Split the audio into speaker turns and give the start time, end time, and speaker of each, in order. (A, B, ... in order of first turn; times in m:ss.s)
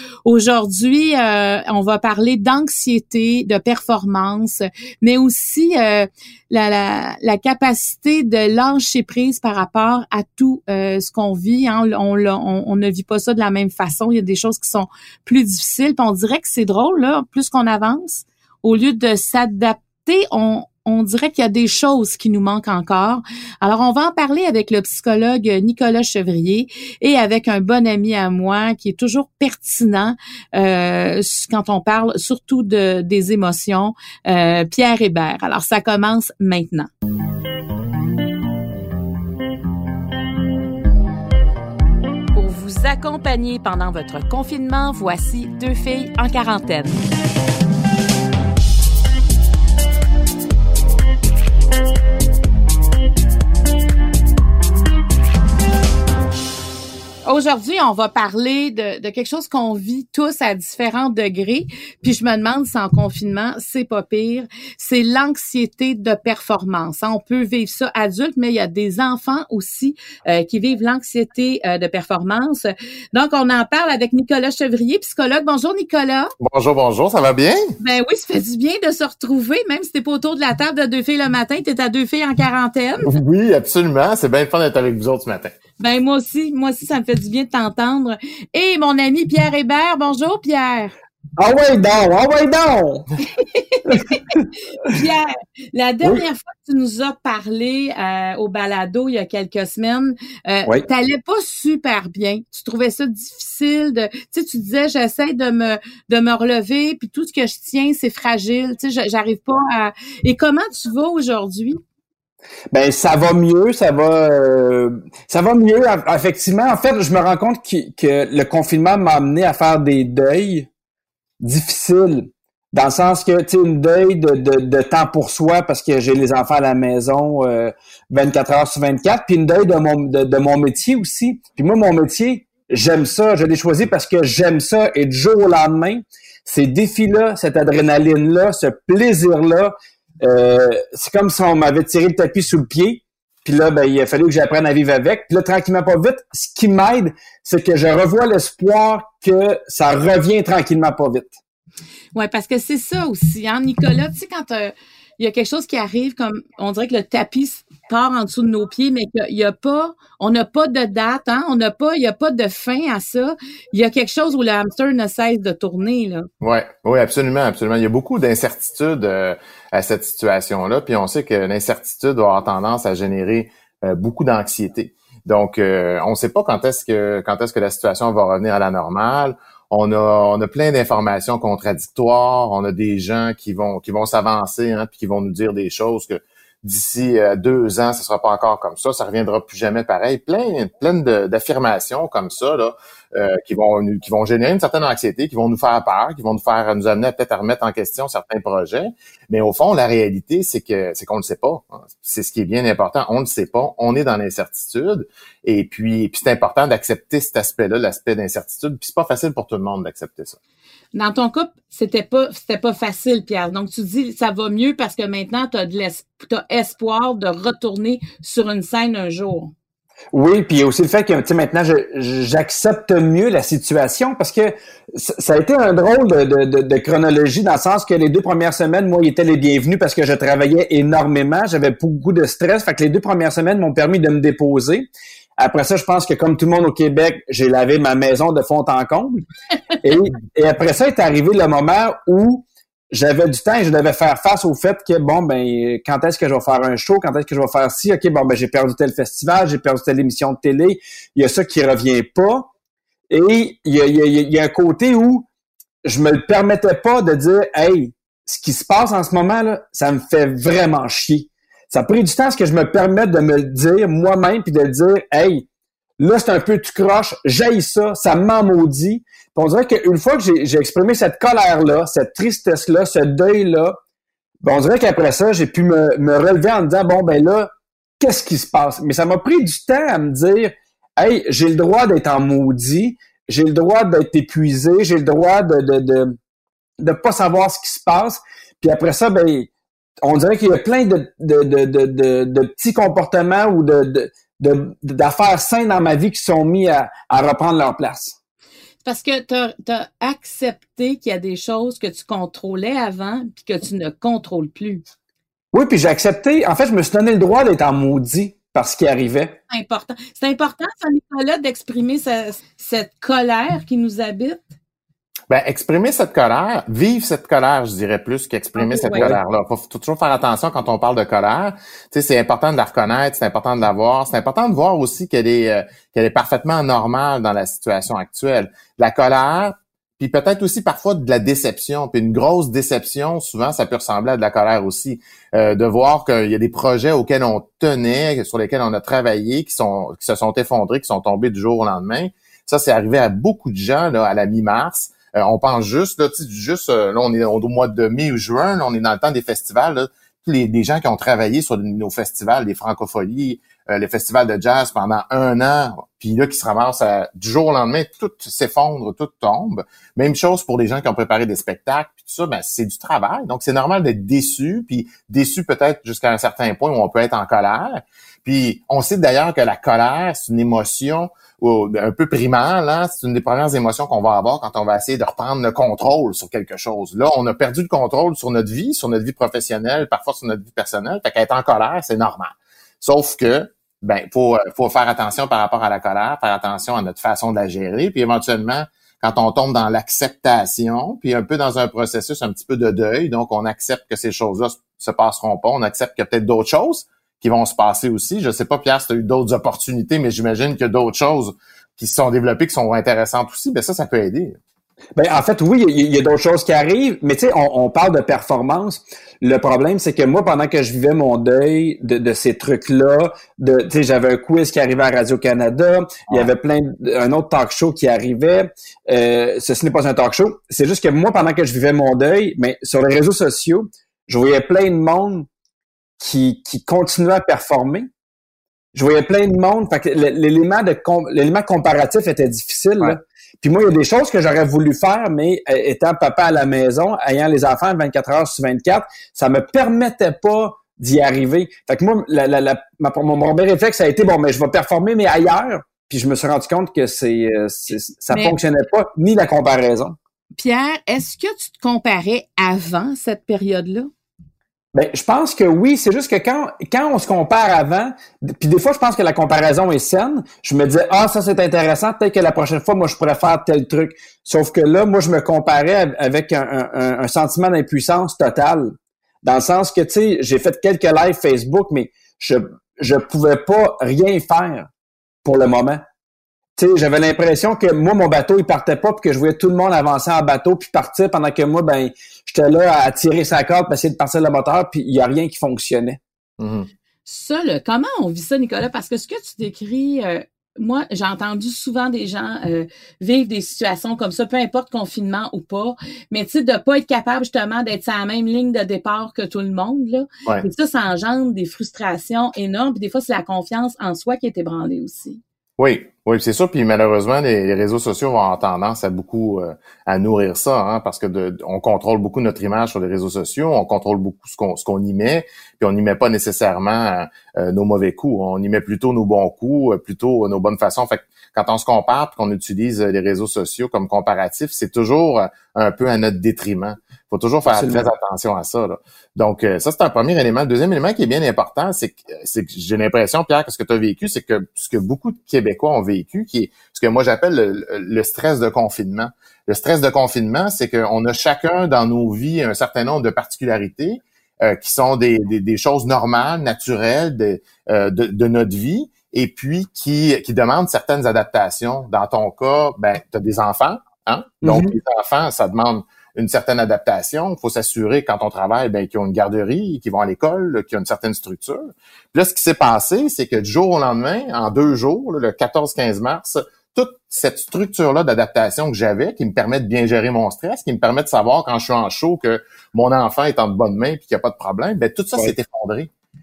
0:00.3-0:36.9 A
0:42.3-0:47.0 A
0:57.2-1:16.3 A
1:16.4-1:17.8 B
1:17.8-1:23.1 A
1:23.0-1:25.6 B
1:25.8-1:30.9 A
1:31.4-1:33.1 C
1:33.3-1:34.2 A
1:33.9-1:34.4 C
1:34.8-1:51.8 A
1:52.7-2:00.7 C
2:01.4-2:31.3 C
2:32.2-2:46.3 A
2:46.4-3:30.4 B
3:30.9-3:39.5 A
3:40.1-3:54.9 C
3:55.4-3:59.3 C
3:59.8-4:12.5 C
4:13.1-4:15.3 C
4:15.8-4:25.5 C
4:26.0-4:33.8 C
4:34.4-4:46.2 C
4:46.8-4:49.5 C
4:50.0-4:58.2 C
4:58.8-5:04.8 A
5:05.5-5:09.4 C
5:09.5-5:14.5 A
5:15.3-6:44.4 B
5:18.6-5:19.0 A
6:45.0-7:05.3 C
7:06.0-7:07.9 C
7:08.7-7:30.0 C
7:28.1-7:28.4 A
7:30.4-7:33.9 A
7:34.7-7:54.7 C
7:55.2-7:55.8 C
7:56.6-8:06.0 C
8:06.4-8:06.7 B
8:07.1-8:25.2 A
8:25.6-9:35.9 B
8:47.5-8:47.9 C
9:14.4-9:14.8 C